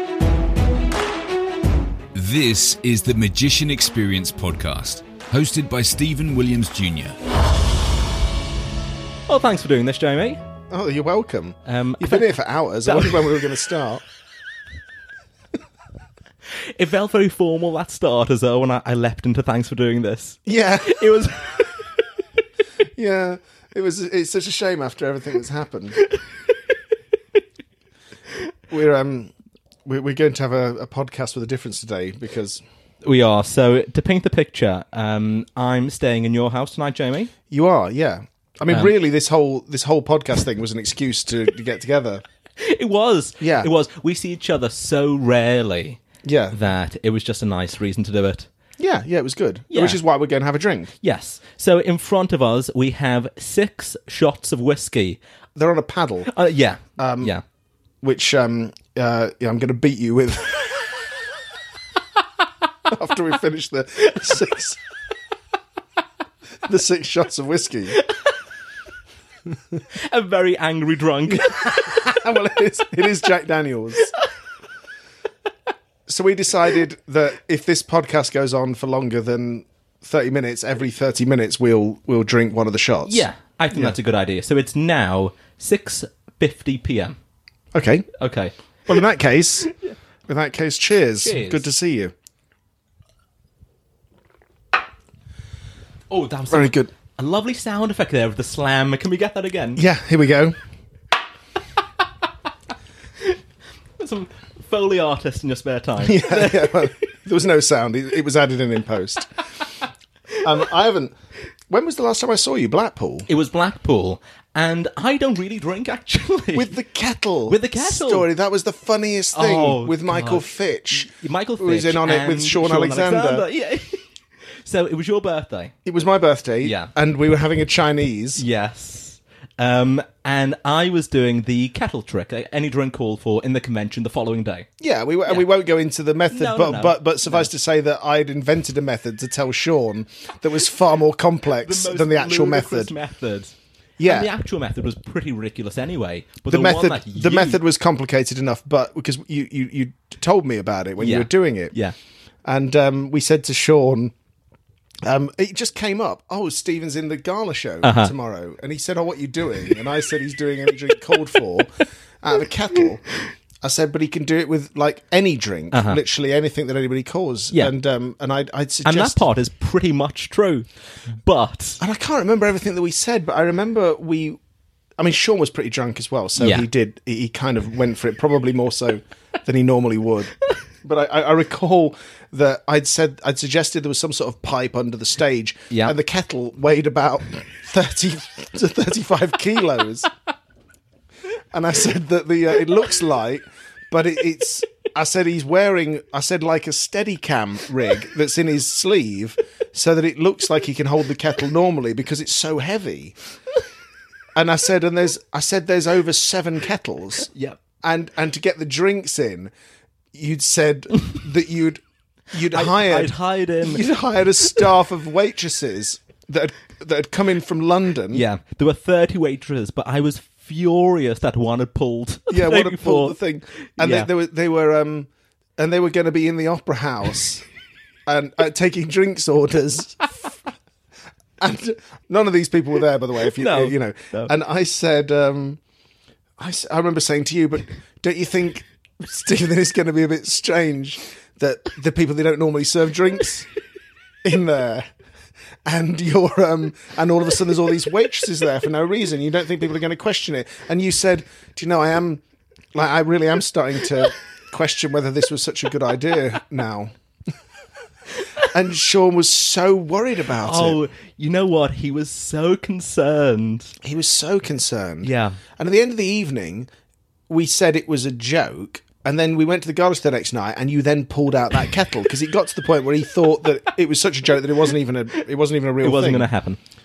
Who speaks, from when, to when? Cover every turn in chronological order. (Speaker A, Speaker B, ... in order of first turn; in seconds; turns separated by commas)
Speaker A: 2.1-7.2, Speaker B: 9.3-10.4, Speaker C: 10.7-14.0, Speaker B: 11.7-12.3, Speaker B: 12.8-13.4, Speaker B: 16.7-21.6, Speaker C: 20.4-21.2, Speaker C: 22.9-26.0, Speaker C: 28.7-29.3, Speaker C: 29.8-32.6, Speaker B: 33.0-37.3, Speaker C: 37.5-42.2, Speaker B: 42.6-46.0, Speaker C: 43.4-43.7, Speaker C: 46.2-46.5, Speaker B: 46.5-48.5, Speaker C: 48.8-50.9, Speaker B: 49.7-50.0, Speaker B: 51.0-55.2, Speaker C: 55.5-56.3, Speaker B: 56.3-57.4, Speaker C: 57.0-57.3, Speaker C: 58.0-60.9, Speaker C: 62.9-64.8, Speaker C: 66.6-68.0, Speaker B: 69.9-72.2, Speaker C: 71.3-74.1, Speaker C: 76.1-83.9, Speaker B: 83.0-87.2, Speaker C: 87.7-88.1, Speaker B: 88.2-88.5, Speaker C: 88.9-89.7, Speaker C: 90.3-92.1, Speaker B: 91.2-91.7, Speaker B: 96.1-99.8, Speaker C: 96.5-96.9, Speaker C: 99.8-100.5, Speaker B: 104.0-106.9, Speaker C: 106.0-109.3, Speaker C: 110.4-111.1, Speaker C: 111.7-113.3, Speaker B: 113.3-116.7, Speaker C: 116.5-123.4, Speaker B: 117.5-118.3, Speaker B: 119.3-124.0, Speaker B: 124.6-125.7, Speaker C: 125.8-128.4, Speaker B: 126.6-126.9, Speaker B: 128.4-134.7, Speaker C: 134.8-142.9, Speaker B: 136.3-137.5, Speaker B: 141.6-147.6, Speaker C: 144.0-144.3, Speaker C: 146.5-151.7, Speaker B: 151.0-151.9, Speaker C: 152.4-154.1, Speaker C: 155.0-163.0, Speaker B: 157.8-158.1, Speaker C: 163.6-169.2, Speaker B: 165.7-166.0, Speaker B: 168.8-170.7, Speaker B: 171.2-171.8, Speaker C: 171.8-174.4, Speaker C: 175.0-180.3, Speaker B: 176.4-176.7, Speaker C: 180.8-190.1, Speaker C: 191.5-203.1, Speaker C: 204.3-207.3, Speaker B: 207.3-207.6, Speaker C: 207.8-209.5, Speaker C: 210.1-218.2, Speaker B: 212.4-213.8, Speaker B: 218.1-223.2, Speaker C: 222.3-227.4, Speaker B: 223.8-224.1, Speaker C: 228.1-230.3, Speaker C: 231.4-235.6, Speaker B: 233.3-234.3, Speaker C: 236.4-243.5, Speaker C: 244.2-244.8, Speaker C: 245.6-252.2, Speaker C: 252.7-256.9, Speaker C: 258.4-260.8, Speaker B: 260.4-263.7, Speaker C: 263.8-266.7, Speaker B: 265.0-265.4, Speaker C: 267.3-276.3, Speaker B: 275.8-276.6